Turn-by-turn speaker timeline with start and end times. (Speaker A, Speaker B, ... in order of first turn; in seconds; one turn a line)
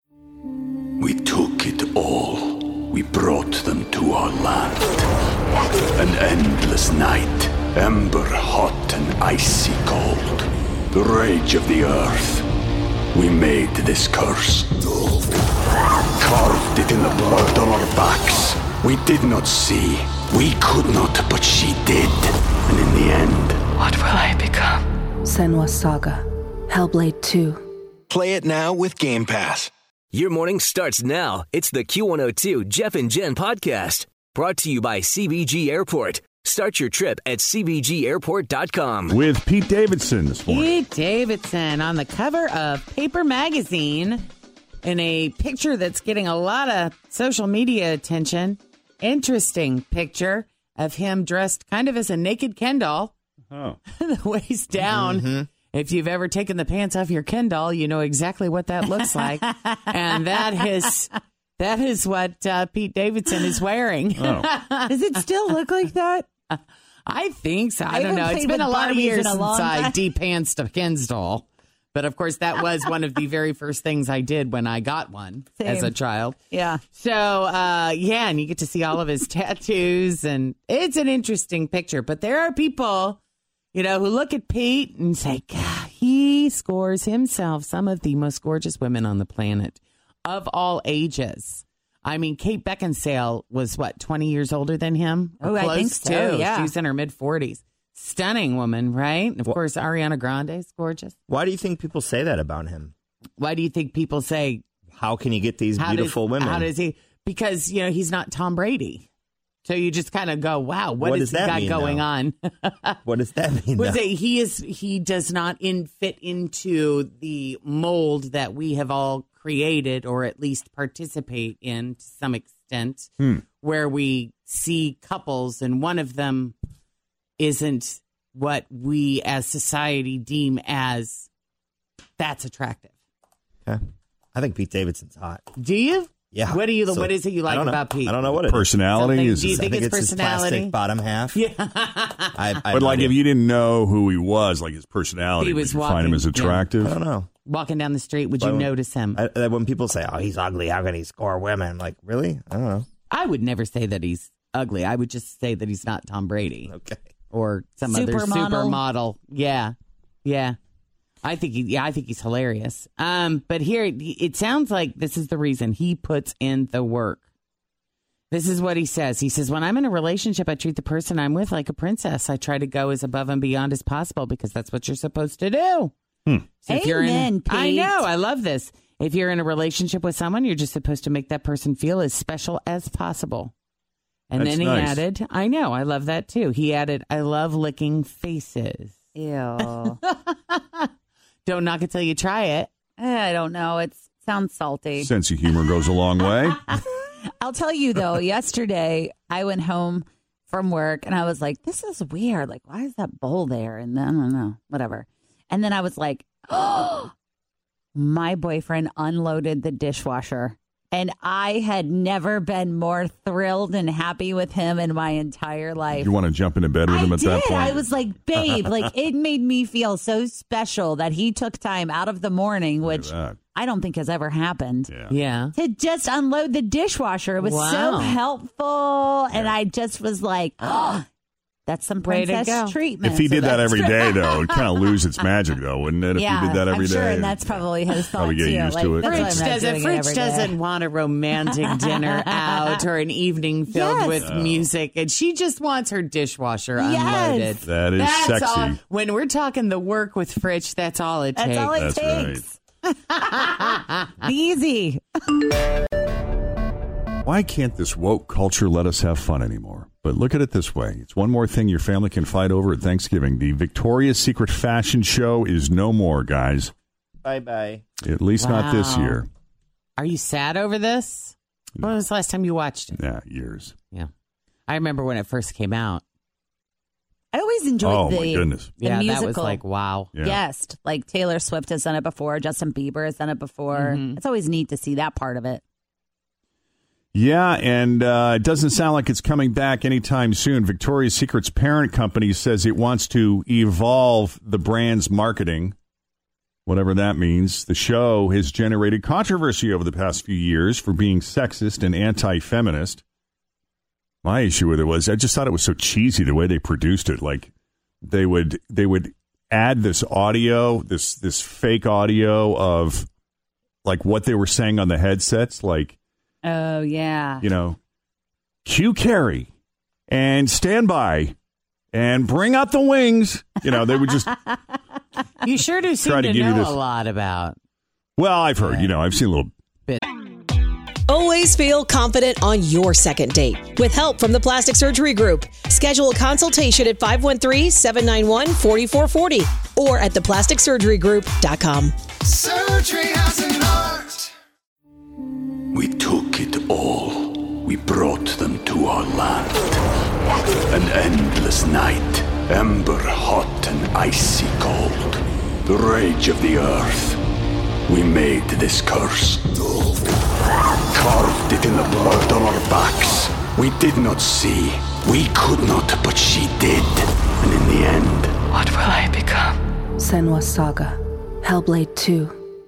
Speaker A: 1.0-5.1
Speaker A: 6.0-12.5
Speaker A: 13.1-14.8
Speaker A: 16.2-23.6
Speaker B: 23.8-24.8
Speaker C: 25.2-27.7
Speaker D: 28.1-29.7
Speaker E: 30.1-39.1
Speaker A: 34.0-34.6
Speaker F: 39.1-40.7
Speaker G: 40.5-44.3
Speaker G: 44.8-53.1
Speaker F: 53.5-53.8
Speaker G: 54.0-65.6
Speaker H: 54.9-55.5
Speaker F: 64.2-64.5
Speaker I: 64.9-66.3
Speaker G: 66.5-83.2
Speaker I: 67.9-69.9
Speaker I: 75.6-75.9
Speaker I: 76.5-76.8
Speaker G: 83.7-101.1
Speaker I: 95.4-96.7
Speaker H: 101.3-102.9
Speaker G: 103.4-104.6
Speaker H: 104.9-106.7
Speaker G: 105.8-109.1
Speaker G: 109.6-113.0
Speaker H: 111.0-112.0
Speaker H: 113.0-114.0
Speaker G: 113.8-126.5
Speaker G: 127.4-131.3
Speaker G: 132.2-132.9
Speaker H: 134.3-135.4
Speaker G: 135.6-138.2
Speaker H: 136.3-138.7
Speaker F: 138.3-139.6
Speaker G: 138.9-140.8
Speaker H: 139.4-141.4
Speaker G: 141.3-142.4
Speaker H: 142.3-143.2
Speaker F: 142.7-146.9
Speaker G: 145.4-146.7
Speaker H: 146.8-147.3
Speaker G: 147.4-149.2
Speaker H: 148.4-152.8
Speaker G: 153.1-156.7
Speaker H: 156.7-157.0
Speaker G: 157.3-160.6
Speaker I: 157.9-158.8
Speaker G: 161.2-167.2
Speaker G: 168.3-175.9
Speaker F: 176.2-176.6
Speaker G: 176.6-183.5
Speaker I: 176.7-177.9
Speaker G: 184.3-189.0
Speaker F: 184.3-185.0
Speaker I: 189.1-190.0
Speaker G: 189.6-190.8
Speaker G: 191.4-192.7
Speaker I: 193.0-195.1
Speaker F: 195.0-196.7
Speaker I: 196.7-207.1
Speaker I: 207.9-216.1
Speaker F: 215.9-218.9
Speaker I: 216.9-224.9
Speaker F: 222.8-223.4
Speaker F: 224.9-225.1
Speaker G: 225.1-225.5
Speaker I: 225.5-231.0
Speaker G: 227.4-228.2
Speaker F: 229.3-229.6
Speaker I: 231.7-234.7
Speaker G: 232.0-232.8
Speaker F: 233.0-239.4
Speaker I: 236.1-240.5
Speaker G: 239.0-251.8
Speaker I: 243.7-244.1
Speaker F: 244.1-244.7
Speaker I: 246.8-247.5
Speaker F: 247.6-248.8
Speaker I: 251.3-252.5
Speaker F: 251.7-252.4
Speaker G: 253.2-253.8
Speaker I: 254.2-255.0
Speaker F: 257.2-266.7
Speaker H: 267.2-267.8
Speaker F: 268.0-269.2
Speaker G: 268.4-269.2
Speaker G: 270.0-273.0
Speaker F: 272.9-273.7
Speaker G: 274.7-276.0
Speaker I: 277.3-279.6
Speaker F: 277.8-278.8
Speaker G: 278.8-280.1
Speaker F: 280.1-280.4
Speaker I: 280.2-285.6
Speaker G: 283.7-284.2
Speaker F: 287.1-295.7
Speaker F: 296.6-303.0
Speaker F: 304.2-307.5
Speaker F: 308.0-313.1
Speaker F: 313.8-315.9
Speaker I: 316.4-317.4
Speaker F: 317.4-317.8
Speaker F: 318.6-319.5
Speaker F: 320.1-321.3
Speaker F: 321.9-324.4
Speaker G: 325.4-327.6
Speaker F: 326.0-326.7
Speaker F: 328.2-329.5
Speaker G: 328.6-328.9
Speaker B: 331.1-341.9
Speaker D: 342.3-344.1
Speaker A: 345.7-349.8
Speaker A: 350.7-357.2
Speaker A: 357.9-359.5
Speaker A: 360.9-368.3
Speaker B: 368.5-369.6
Speaker C: 370.0-372.4